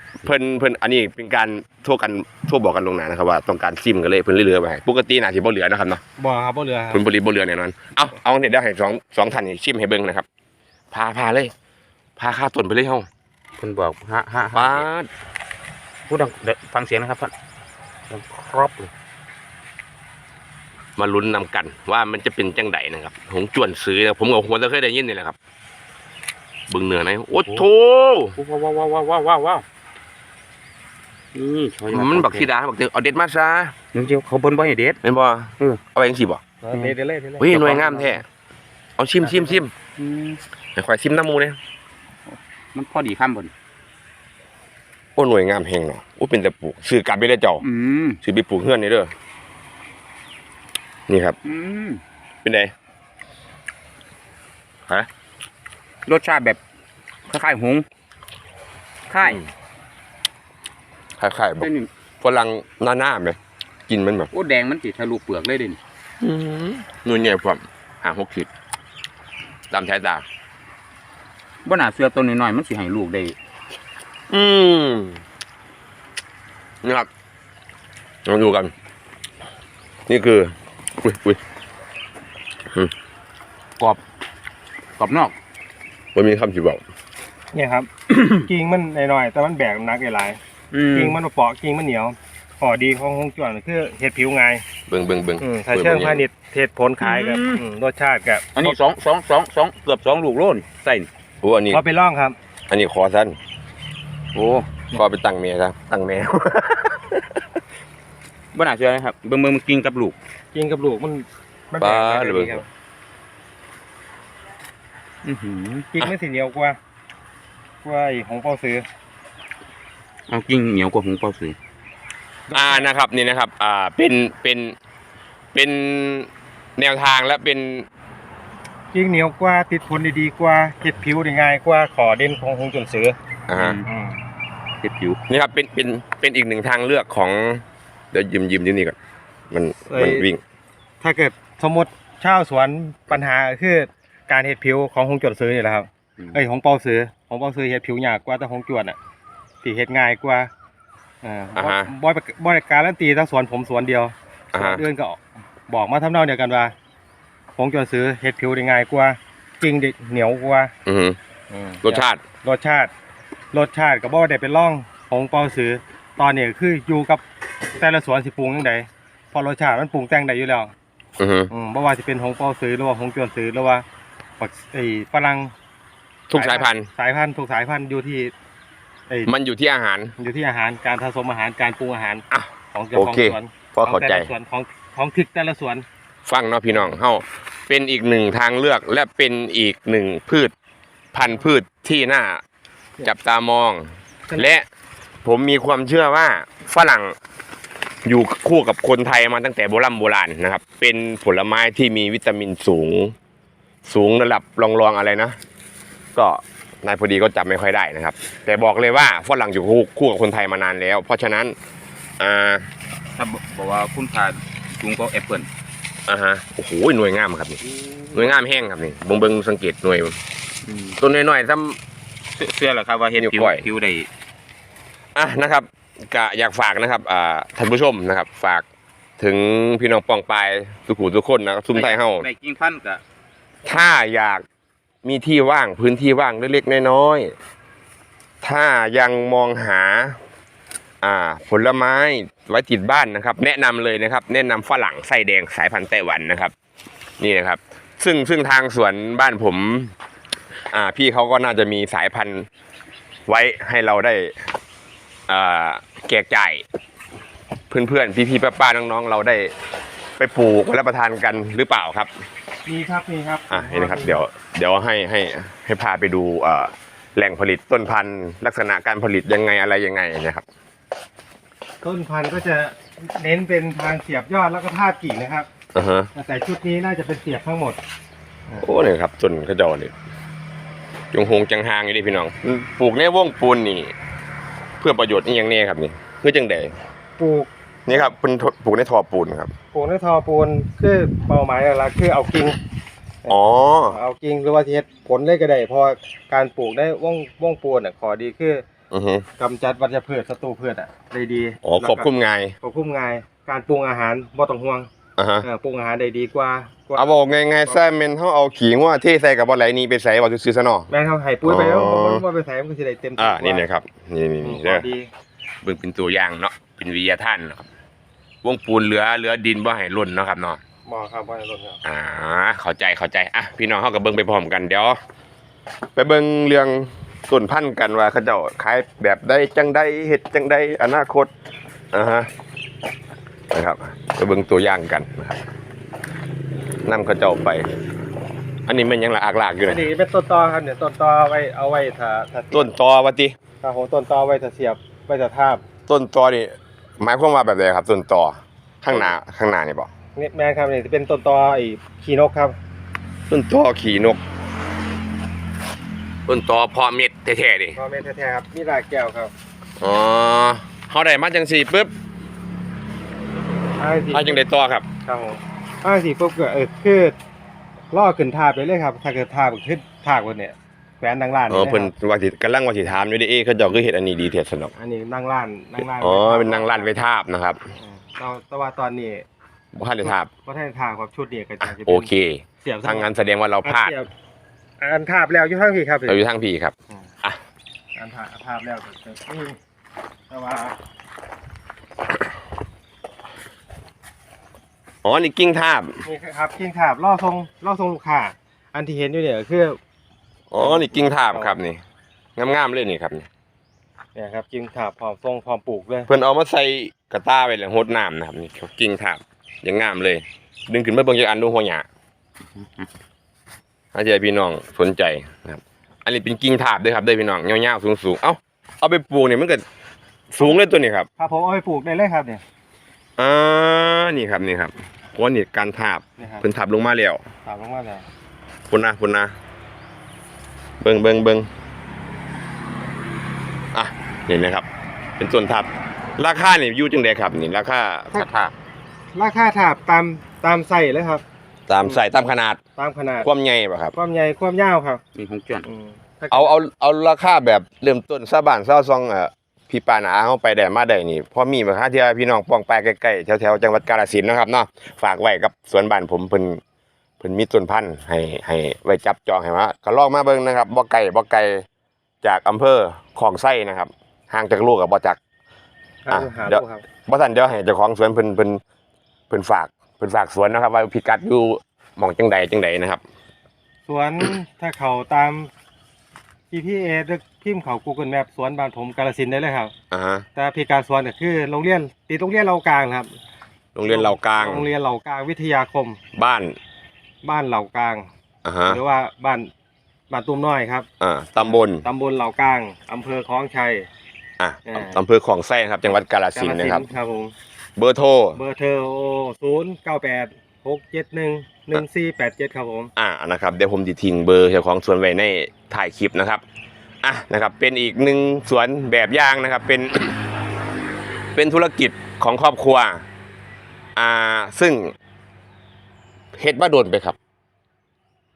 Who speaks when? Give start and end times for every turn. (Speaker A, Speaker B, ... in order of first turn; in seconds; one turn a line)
Speaker A: 0.2-6.0
Speaker B: 6.2-7.0
Speaker A: 6.9-10.2
Speaker A: 10.9-11.5
Speaker A: 12.2-13.1
Speaker C: 13.6-14.8
Speaker A: 14.5-15.1
Speaker C: 16.1-17.3
Speaker C: 18.1-18.9
Speaker A: 21.0-25.4
Speaker A: 26.7-28.4
Speaker C: 28.4-29.6
Speaker C: 31.3-32.5
Speaker A: 31.9-33.7
Speaker C: 33.9-35.0
Speaker A: 35.0-36.4
Speaker B: 36.6-38.2
Speaker A: 37.4-38.2
Speaker A: 39.0-39.7
Speaker C: 40.0-40.4
Speaker A: 40.8-41.6
Speaker C: 42.3-43.5
Speaker A: 45.1-47.6
Speaker C: 47.6-48.2
Speaker A: 48.2-49.1
Speaker A: 51.1-51.4
Speaker C: 51.4-52.0
Speaker A: 52.4-52.7
Speaker C: 56.0-56.6
Speaker C: 57.3-57.8
Speaker C: 59.1-59.4
Speaker A: 61.2-61.7
Speaker C: 61.6-61.9
Speaker A: 62.2-64.3
Speaker C: 64.3-65.8
Speaker A: 66.2-68.5
Speaker A: 69.7-70.2
Speaker C: 71.6-73.3
Speaker A: 74.3-75.2
Speaker A: 76.8-77.1
Speaker A: 78.2-78.7
Speaker A: 80.1-81.4
Speaker C: 85.0-85.3
Speaker A: 86.1-86.8
Speaker B: 87.5-90.4
Speaker C: 88.1-88.4
Speaker C: 90.7-91.2
Speaker B: 90.9-94.6
Speaker A: 94.9-96.2
Speaker B: 95.4-98.8
Speaker C: 97.0-97.6
Speaker C: 98.5-101.1
Speaker A: 101.4-101.8
Speaker B: 101.7-102.3
Speaker A: 102.7-103.3
Speaker C: 104.3-104.7
Speaker A: 104.9-107.4
Speaker C: 108.5-110.1
Speaker B: 110.5-112.7
Speaker A: 111.8-112.6
Speaker C: 115.2-115.9
Speaker B: 115.9-116.8
Speaker B: 117.8-118.8
Speaker C: 120.3-121.5
Speaker B: 122.5-122.8
Speaker A: 122.5-124.7
Speaker A: 125.5-127.9
Speaker B: 128.9-133.2
Speaker A: 133.5-133.8
Speaker C: 133.5-133.8
Speaker B: 133.8-134.2
Speaker C: 134.8-135.2
Speaker A: 135.3-138.9
Speaker A: 139.5-140.4
Speaker B: 139.9-140.3
Speaker B: 141.0-149.0
Speaker B: 149.6-150.5
Speaker B: 151.2-156.7
Speaker A: 151.6-151.9
Speaker A: 154.5-154.8
Speaker B: 157.6-160.7
Speaker A: 160.8-161.2
Speaker B: 161.5-162.9
Speaker A: 161.8-162.2
Speaker B: 163.5-167.2
Speaker B: 167.8-170.7
Speaker A: 171.2-171.5
Speaker B: 171.5-173.8
Speaker B: 174.4-175.5
Speaker A: 176.3-176.9
Speaker B: 176.3-178.3
Speaker A: 179.2-180.1
Speaker B: 180.2-185.8
Speaker A: 182.3-184.3
Speaker A: 186.2-190.5
Speaker A: 191.1-192.4
Speaker A: 193.0-194.6
Speaker B: 194.3-194.5
Speaker A: 195.2-197.1
Speaker A: 198.0-203.1
Speaker A: 203.8-205.4
Speaker A: 206.1-211.5
Speaker A: 212.2-212.7
Speaker C: 213.2-215.5
Speaker A: 216.1-217.6
Speaker C: 217.6-218.4
Speaker A: 218.1-220.2
Speaker C: 220.6-221.0
Speaker A: 221.0-221.8
Speaker C: 222.3-224.1
Speaker A: 223.2-223.7
Speaker A: 225.1-228.6
Speaker A: 229.2-232.2
Speaker C: 231.7-233.0
Speaker A: 233.7-234.4
Speaker A: 235.0-237.3
Speaker A: 238.4-240.2
Speaker A: 241.0-246.5
Speaker A: 247.2-249.9
Speaker A: 250.7-252.5
Speaker A: 253.3-254.3
Speaker A: 255.3-256.6
Speaker A: 257.7-259.5
Speaker A: 260.2-262.1
Speaker B: 262.6-264.2
Speaker A: 263.5-270.4
Speaker B: 271.8-275.5
Speaker A: 275.7-276.1
Speaker B: 276.1-277.8
Speaker A: 278.6-279.9
Speaker A: 281.1-283.9
Speaker A: 284.8-286.7
Speaker B: 287.2-288.1
Speaker A: 287.9-289.5
Speaker B: 289.7-292.6
Speaker B: 293.2-298.6
Speaker A: 293.3-294.0
Speaker A: 298.9-299.2
Speaker B: 299.4-302.1
Speaker A: 301.6-302.6
Speaker B: 302.6-304.9
Speaker A: 305.2-305.4
Speaker B: 305.4-307.8
Speaker A: 306.9-310.9
Speaker B: 310.9-313.6
Speaker A: 311.4-312.2
Speaker A: 313.2-314.9
Speaker B: 314.4-315.1
Speaker A: 315.6-317.6
Speaker A: 318.4-320.6
Speaker B: 320.9-321.8
Speaker A: 321.8-325.0
Speaker A: 325.9-331.3
Speaker A: 331.9-332.3
Speaker A: 333.5-335.4
Speaker A: 336.8-337.7
Speaker A: 338.6-339.8
Speaker B: 339.6-342.7
Speaker A: 342.5-343.4
Speaker B: 343.6-345.6
Speaker A: 345.9-349.9
Speaker B: 350.1-352.6
Speaker A: 353.3-354.2
Speaker A: 356.3-357.8
Speaker B: 357.7-359.3
Speaker A: 359.8-361.9
Speaker B: 363.8-364.4
Speaker A: 364.1-364.9
Speaker B: 365.0-367.1
Speaker B: 367.9-371.9
Speaker A: 371.5-374.7
Speaker B: 374.8-376.9
Speaker A: 375.8-377.7
Speaker B: 377.8-379.2
Speaker A: 379.7-380.3
Speaker B: 380.0-382.1
Speaker A: 381.6-383.9
Speaker B: 382.6-383.1
Speaker B: 383.6-384.1
Speaker B: 384.8-386.2
Speaker A: 386.1-387.4
Speaker B: 387.9-389.6
Speaker B: 390.3-390.8
Speaker A: 395.0-396.0
Speaker B: 396.0-399.8
Speaker A: 400.5-401.8
Speaker B: 400.6-401.6
Speaker A: 402.4-403.3
Speaker B: 404.1-406.1
Speaker A: 406.1-411.9
Speaker A: 413.9-419.6
Speaker A: 420.3-421.1
Speaker B: 421.2-422.4
Speaker A: 423.2-427.2
Speaker B: 426.2-426.4
Speaker B: 427.4-428.1
Speaker A: 428.7-429.3
Speaker A: 430.8-431.5
Speaker A: 433.7-434.6
Speaker A: 435.2-438.2
Speaker C: 438.1-438.5
Speaker B: 439.1-441.2
Speaker A: 441.7-442.6
Speaker B: 442.8-443.3
Speaker A: 443.2-443.9
Speaker B: 443.9-445.0
Speaker C: 445.1-445.6
Speaker B: 445.6-446.5
Speaker A: 446.3-456.6
Speaker A: 457.2-461.6
Speaker A: 462.2-465.2
Speaker B: 466.0-466.8
Speaker A: 466.1-468.6
Speaker A: 469.3-473.0
Speaker B: 473.9-475.5
Speaker B: 476.5-479.7
Speaker A: 479.9-480.2
Speaker B: 480.3-483.1
Speaker A: 483.7-484.6
Speaker B: 483.8-486.0
Speaker A: 486.1-486.6
Speaker B: 487.2-488.1
Speaker A: 488.4-488.8
Speaker B: 488.6-489.5
Speaker B: 490.1-490.9
Speaker A: 491.0-491.8
Speaker B: 491.4-493.9
Speaker A: 494.4-496.8
Speaker B: 494.6-495.0
Speaker B: 496.3-497.3
Speaker A: 497.8-498.4
Speaker B: 498.4-502.9
Speaker A: 502.9-506.4
Speaker A: 507.0-510.2
Speaker A: 511.3-513.0
Speaker A: 514.0-514.9
Speaker A: 516.3-517.1